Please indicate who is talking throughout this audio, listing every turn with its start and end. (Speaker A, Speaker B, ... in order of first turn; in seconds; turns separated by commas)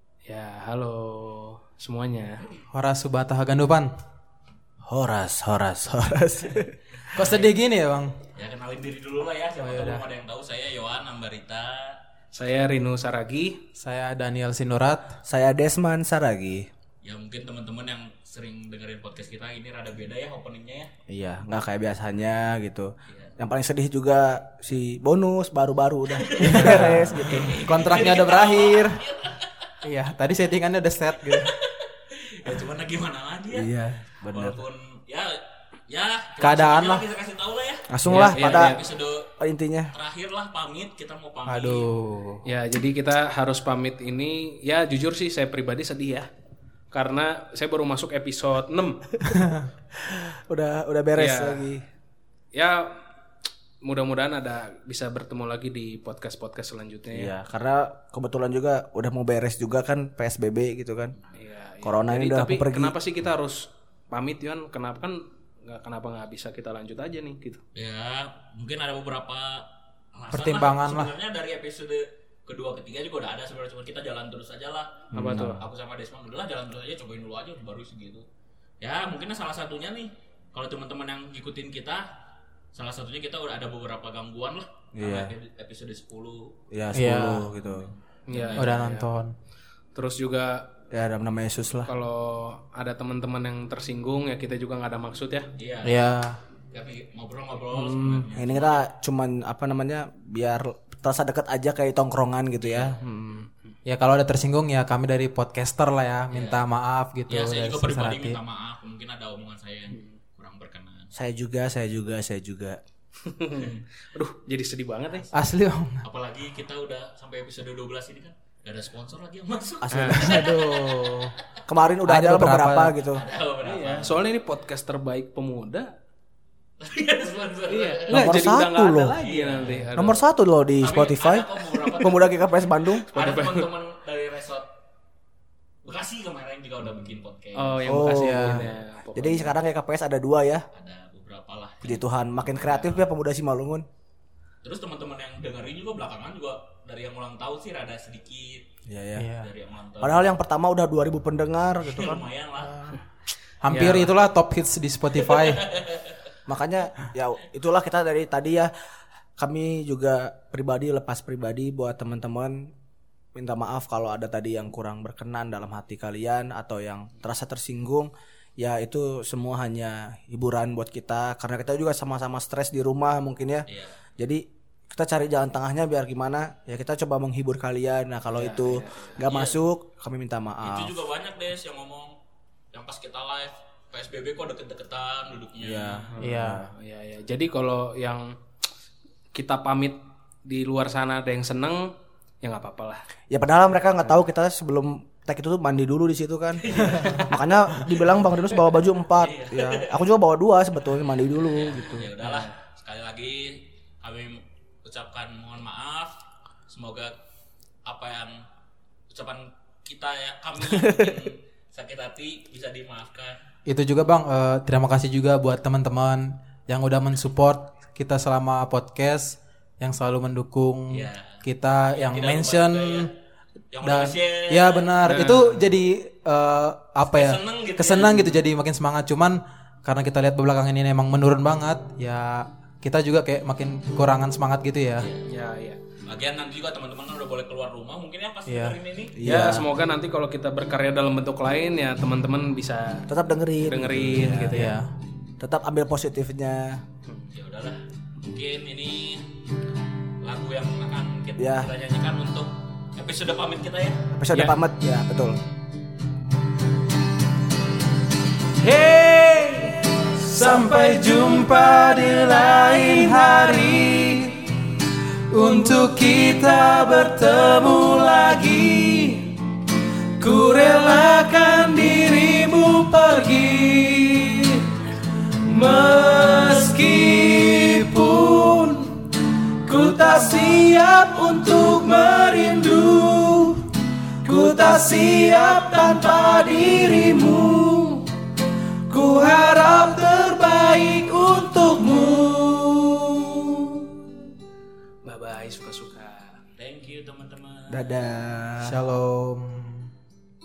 Speaker A: 0.3-2.5, Speaker B: 2.7-3.9, Speaker C: 4.8-7.1, Speaker B: 7.1-8.1, Speaker D: 7.2-7.5, Speaker D: 8.3-12.0, Speaker B: 9.6-10.0, Speaker A: 12.3-13.6, Speaker B: 13.8-15.2, Speaker C: 15.3-16.7, Speaker D: 17.0-20.9, Speaker C: 21.1-27.6, Speaker D: 23.1-23.4, Speaker D: 26.1-29.6, Speaker B: 26.4-29.0, Speaker B: 29.8-31.5, Speaker D: 31.3-33.7, Speaker C: 33.5-34.6, Speaker D: 34.3-35.4, Speaker D: 35.9-39.3, Speaker B: 36.4-37.0, Speaker C: 37.9-38.8, Speaker A: 38.1-38.8, Speaker C: 39.4-39.9, Speaker D: 39.9-41.9, Speaker B: 41.5-42.4, Speaker A: 42.5-46.3, Speaker A: 46.9-49.2, Speaker B: 49.2-49.7, Speaker C: 50.0-51.8, Speaker A: 51.1-51.7, Speaker A: 52.5-53.0, Speaker A: 53.8-57.3, Speaker C: 57.1-61.1, Speaker A: 61.4-67.6, Speaker C: 61.8-63.0, Speaker D: 67.8-78.2, Speaker B: 70.3-71.2, Speaker C: 75.1-75.6, Speaker A: 75.1-75.6, Speaker D: 78.8-82.0, Speaker D: 82.7-86.5, Speaker C: 85.0-85.3, Speaker C: 86.7-87.9, Speaker B: 86.9-87.5, Speaker D: 87.6-88.8, Speaker A: 88.3-89.1, Speaker B: 88.5-89.3, Speaker A: 89.9-90.6, Speaker C: 90.9-91.9, Speaker A: 91.8-95.5, Speaker D: 95.6-96.0, Speaker B: 95.8-96.4, Speaker D: 96.7-98.9, Speaker A: 97.7-98.3, Speaker C: 98.3-103.0, Speaker D: 102.6-103.0, Speaker A: 103.0-103.7, Speaker B: 103.9-108.4, Speaker D: 106.3-106.6, Speaker D: 107.3-111.1, Speaker C: 111.2-112.8, Speaker A: 113.2-115.3, Speaker D: 113.5-113.8, Speaker B: 115.3-116.0, Speaker D: 116.0-121.1, Speaker C: 119.8-120.6, Speaker A: 119.9-120.2, Speaker B: 120.3-121.3, Speaker C: 121.7-123.2, Speaker B: 122.1-123.0, Speaker D: 123.1-124.2, Speaker A: 123.6-125.9, Speaker D: 126.8-128.4, Speaker A: 127.7-130.2, Speaker C: 128.1-129.2, Speaker D: 129.2-129.9, Speaker C: 129.9-133.1, Speaker D: 130.8-132.3, Speaker D: 133.1-134.7, Speaker A: 133.1-133.7, Speaker D: 135.8-138.0, Speaker A: 137.6-139.6, Speaker C: 137.9-138.6, Speaker B: 138.1-138.7, Speaker C: 139.2-140.7, Speaker D: 140.7-143.2, Speaker C: 141.8-143.8, Speaker D: 144.6-148.7, Speaker C: 148.9-149.3, Speaker B: 149.2-149.5, Speaker D: 149.4-150.4, Speaker C: 150.0-152.2, Speaker D: 151.8-152.9, Speaker B: 153.6-155.7, Speaker A: 153.7-154.1, Speaker D: 155.1-156.2, Speaker C: 156.5-158.7, Speaker C: 159.4-162.7, Speaker C: 163.3-173.7, Speaker D: 173.7-174.0, Speaker C: 174.2-180.9, Speaker A: 178.3-179.2, Speaker D: 179.2-179.6, Speaker D: 180.6-182.2, Speaker D: 182.7-186.1, Speaker C: 185.6-186.7, Speaker A: 186.1-188.3, Speaker B: 186.2-186.7, Speaker A: 189.3-193.0, Speaker C: 193.3-202.1, Speaker D: 196.6-197.3, Speaker D: 197.9-198.3, Speaker D: 199.2-200.0, Speaker D: 201.3-206.1, Speaker A: 202.2-202.6, Speaker D: 206.7-207.1, Speaker D: 207.9-208.4, Speaker D: 209.1-213.4, Speaker B: 213.7-223.1, Speaker D: 220.9-221.4, Speaker D: 221.9-223.1, Speaker D: 223.7-225.2, Speaker B: 223.8-235.1, Speaker A: 225.0-225.7, Speaker D: 227.1-228.4, Speaker D: 235.0-235.3, Speaker A: 235.3-235.8, Speaker D: 236.1-239.2, Speaker B: 238.5-238.8, Speaker C: 239.2-239.7, Speaker A: 239.2-243.1, Speaker C: 243.1-244.6, Speaker A: 243.6-244.8, Speaker B: 244.5-244.9, Speaker C: 245.4-246.8, Speaker D: 247.3-249.2, Speaker D: 250.2-254.0, Speaker C: 251.4-251.7, Speaker C: 254.1-255.4, Speaker A: 258.6-261.6, Speaker B: 260.8-264.2, Speaker A: 262.3-264.2, Speaker A: 265.4-269.3, Speaker B: 265.5-266.7, Speaker A: 270.2-274.5, Speaker A: 275.5-278.9, Speaker A: 279.7-283.6, Speaker A: 284.3-288.0, Speaker A: 288.9-293.2, Speaker A: 295.0-296.4, Speaker D: 296.6-297.9, Speaker C: 297.7-298.8, Speaker B: 298.6-299.9